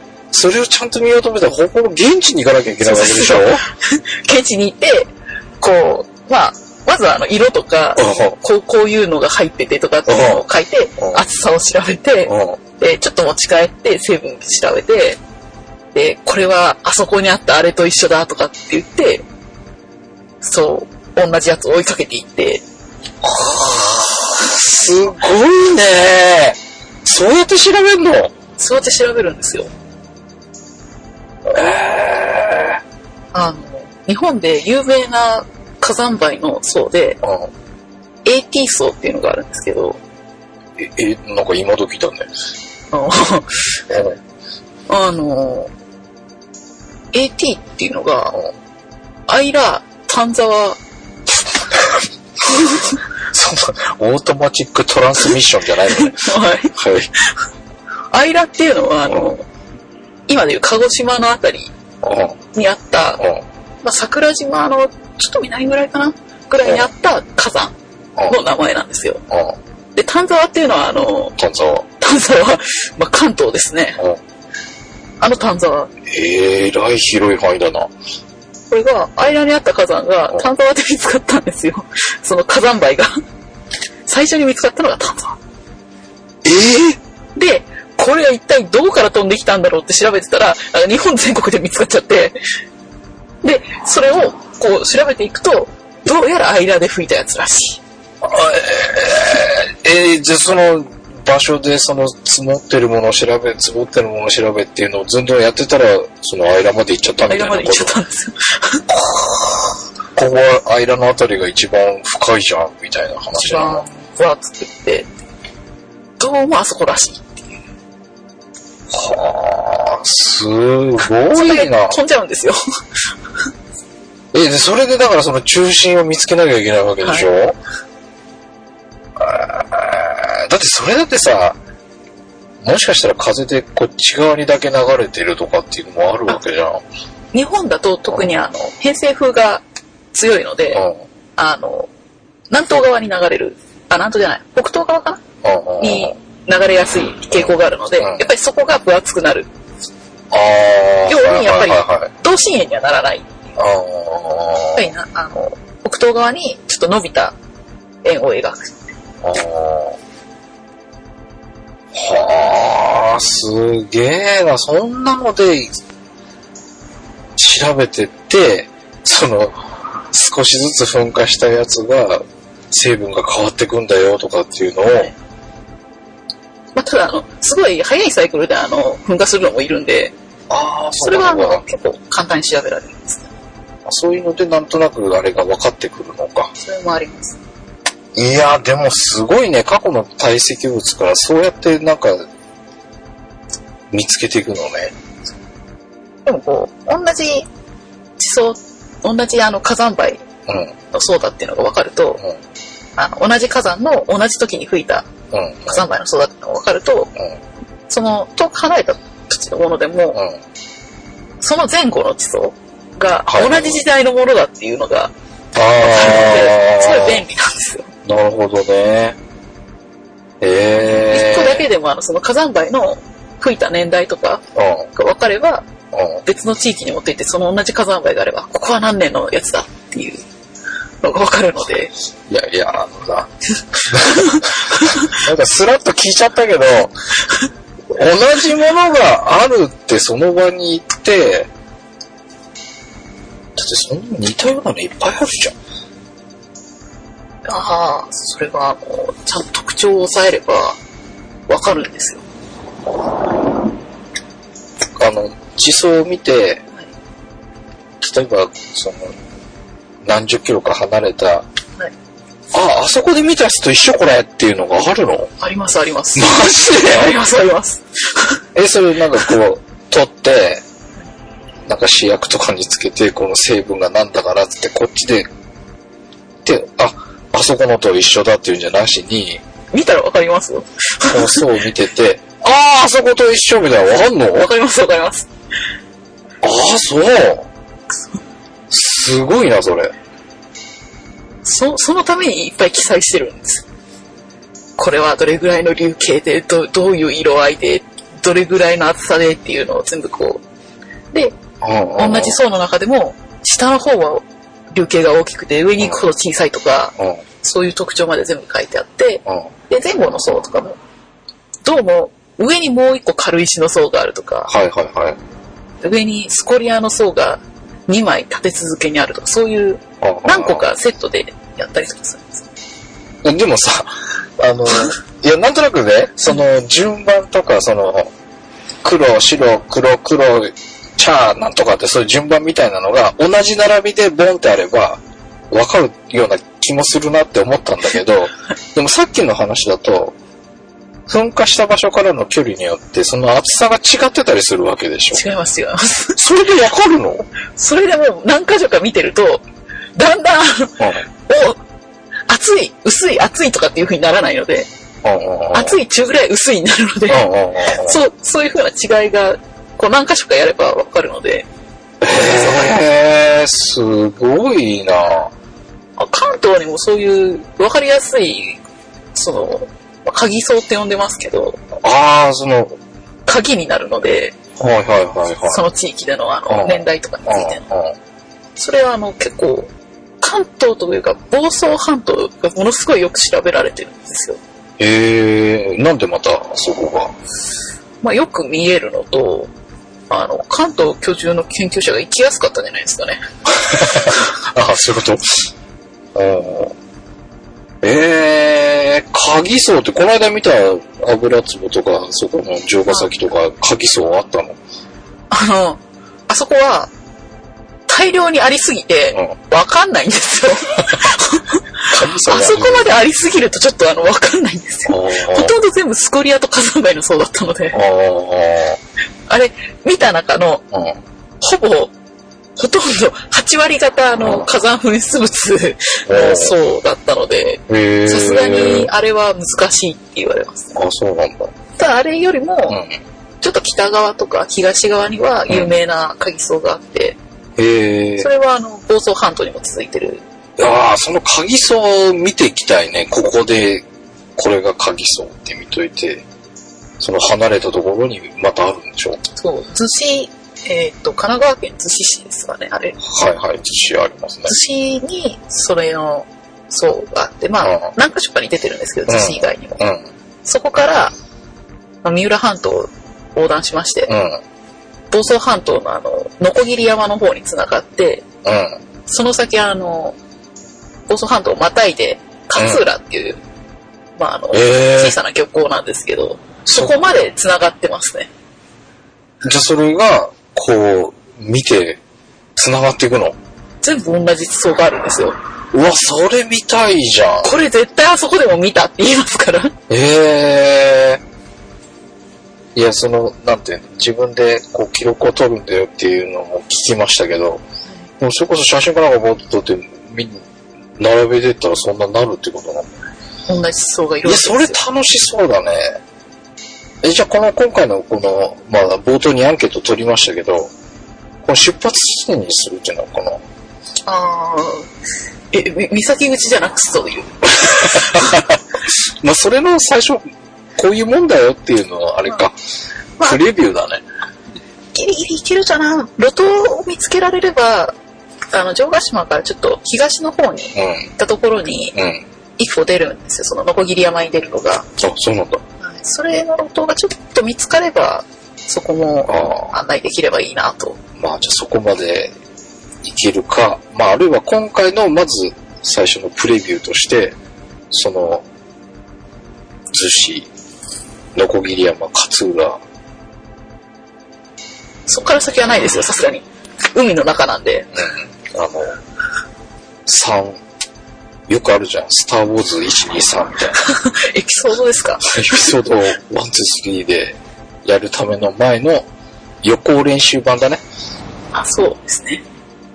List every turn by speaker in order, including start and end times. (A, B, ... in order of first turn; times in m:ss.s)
0:00.3-0:03.6 A
0:02.8-0:15.2 B
0:08.0-0:08.4 A
0:10.1-0:10.4 A
0:12.3-0:12.6 A
0:15.9-0:19.2 B
0:20.4-0:22.6 B
0:23.2-0:28.3 A
0:28.6-0:29.7 B
0:31.5-0:32.8 A
0:33.3-0:37.2 B
0:37.2-0:37.5 A
0:38.2-0:40.0 B
0:40.8-0:42.3 A
0:42.9-0:43.6 B
0:43.9-0:44.2 A
0:44.9-0:45.7 B
0:47.1-0:48.4 B
0:49.3-0:50.8 B
0:53.3-0:57.1 A
0:56.0-0:56.7 B
0:58.1-0:59.4 B
0:59.1-0:59.3 A
1:00.3-1:01.7 B
1:02.0-1:02.4 A
1:02.5-1:03.2 B
1:03.8-1:07.8 B
1:08.3-1:09.2 B
1:09.3-1:09.6 A
1:10.0-1:11.4 B
1:11.4-1:11.9 A
1:12.0-1:14.0 B
1:15.2-1:15.9 B
1:16.1-1:17.9 A
1:18.7-1:23.1 B
1:24.1-1:25.4 B
1:26.4-1:27.0 A
1:27.4-1:32.4 B
1:33.4-1:37.8 B
1:38.2-1:48.0 A
1:47.3-1:48.8 B
1:48.9-1:53.8 A
1:53.3-1:55.1 B
1:56.2-1:57.6 B
1:58.9-2:02.0 A
2:01.3-2:02.6 B
2:04.3-2:07.6 A
2:09.2-2:11.6 A
2:12.6-2:16.8 A
2:17.3-2:20.8 B
2:20.7-2:21.0 A
2:21.4-2:21.9 B
2:22.5-2:25.2 B
2:25.4-2:26.2 A
2:25.8-2:29.5 B
2:28.0-2:28.3 A
2:30.3-2:32.1 A
2:31.1-2:33.3 B
2:33.6-2:34.9 A
2:34.8-2:37.4 B
2:38.0-2:38.8 B
2:39.2-2:40.0 A
2:41.9-2:45.7 A
2:47.4-2:55.1 A
2:56.8-3:00.1 B
3:00.5-3:01.6 A
3:01.0-3:03.3 B
3:03.9-3:06.5 A
3:06.6-3:07.4 B
3:08.2-3:12.3 A
3:13.9-3:15.0 A
3:16.3-3:17.5 B
3:18.2-3:20.2 B
3:20.5-3:20.8 A
3:20.9-3:22.2 B
3:23.0-3:25.1 B
3:25.3-3:25.8 A
3:25.7-3:27.1 B
3:27.9-3:30.2 B
3:30.1-3:30.4 A
3:31.4-3:35.1 B
3:33.3-3:33.8 A
3:35.6-3:37.2 A
3:35.8-3:37.9 B
3:38.0-3:39.2 A
3:40.4-3:41.6 A
3:41.0-3:44.4 B
3:44.6-3:44.9 A
3:45.0-3:45.7 B
3:45.9-3:46.2 A
3:46.2-3:50.2 B
3:51.0-3:51.9 B
3:52.3-3:53.3 A
3:53.8-3:56.9 A
3:57.9-4:01.5 A
4:03.6-4:05.6 A
4:07.5-4:10.8 B
4:11.5-4:12.2 B
4:15.0-4:16.6 A
4:18.0-4:19.2 A
4:20.0-4:21.4 A
4:22.5-4:25.3 A
4:25.4-4:28.4 B
4:26.2-4:27.2 A
4:28.6-4:30.6 A
4:31.7-4:35.3 A
4:36.4-4:39.4 A
4:39.7-4:41.5 B
4:41.1-4:44.5 A
4:44.3-4:45.3 B
4:46.4-4:47.5 A
4:48.7-4:49.9 A
4:51.4-4:53.6 B
4:54.8-5:00.4 B
5:01.1-5:01.4 B
5:01.6-5:02.4 A
5:02.0-5:10.8 B
5:11.6-5:14.5 B
5:14.5-5:15.2 A
5:15.8-5:22.4 B
5:20.0-5:20.7 A
5:23.2-5:28.1 A
5:28.8-5:40.2 A
5:41.1-5:45.2 A
5:45.1-5:46.2 B
5:46.2-5:47.3 A
5:47.6-5:49.4 B
5:50.0-5:51.6 B
5:50.8-5:51.0 A
5:52.3-5:54.7 B
5:55.0-5:55.8 A
5:55.5-6:01.5 B
5:57.1-5:58.0 A
6:02.0-6:05.3 A
6:02.1-6:02.8 B
6:06.0-6:08.6 B
6:09.2-6:11.6 B
6:11.8-6:12.8 A
6:13.3-6:14.4 B
6:14.6-6:15.6 A
6:15.5-6:17.6 B
6:16.5-6:18.0 A
6:18.6-6:24.4 B
6:24.8-6:27.2 A
6:28.0-6:29.5 B
6:30.1-6:33.2 B
6:33.6-6:35.4 A
6:36.1-6:36.8 A
6:37.8-6:44.6 A
6:45.3-6:46.9 B
6:47.9-6:57.8 B
6:51.9-6:53.0 A
6:54.9-6:55.5 A
6:57.7-6:58.8 A
6:59.3-7:00.6 B
7:00.7-7:01.0 A
7:01.4-7:01.9 B
7:02.6-7:10.8 B
7:04.2-7:04.5 A
7:06.1-7:06.6 A
7:07.7-7:08.9 A
7:10.8-7:11.5 A
7:11.8-7:12.8 B
7:12.7-7:13.0 A
7:13.4-7:17.2 B
7:17.6-7:18.3 A
7:18.2-7:20.2 B
7:20.6-7:26.2 A
7:27.0-7:29.2 A
7:29.4-7:33.0 B
7:33.0-7:34.5 A
7:34.5-7:39.8 B
7:37.6-7:37.9 A
7:39.1-7:40.1 A
7:40.4-7:41.1 B
7:42.0-7:44.1 B
7:44.1-7:44.4 A
7:45.1-7:48.2 B
7:48.4-7:48.8 A
7:49.1-7:50.2 B
7:51.1-7:53.4 B
7:52.6-7:52.8 A
7:54.2-7:58.3 B
7:54.5-7:55.2 A
7:56.7-7:57.0 A
7:59.4-8:02.0 A
8:02.6-8:03.4 A
8:03.8-8:05.4 B
8:05.7-8:07.6 A
8:07.4-8:09.8 B
8:09.9-8:11.2 A
8:12.8-8:17.6 A
8:18.2-8:20.5 A
8:21.0-8:23.0 A
8:23.5-8:24.8 B
8:24.2-8:26.0 A
8:27.0-8:30.7 A
8:31.4-8:33.4 A
8:34.1-8:34.9 B
8:35.5-8:38.4 B
8:37.6-8:42.6 A
8:43.2-8:44.0 A
8:44.9-8:47.9 B
8:48.5-8:52.0 B
8:50.8-8:51.1 A
8:51.9-8:52.2 A
8:52.6-8:54.9 B
8:55.0-8:55.6 A
8:55.8-9:01.0 B
8:59.3-8:59.7 A
9:01.2-9:02.4 A
9:03.0-9:07.4 A
9:07.9-9:08.4 A
9:09.9-9:10.5 A
9:11.4-9:12.8 A
9:15.1-9:17.9 B
9:18.0-9:19.0 A
9:20.1-9:20.6 A
9:21.5-9:23.8 A
9:23.8-9:25.5 B
9:25.3-9:29.1 A
9:29.6-9:30.8 A
9:31.5-9:32.4 B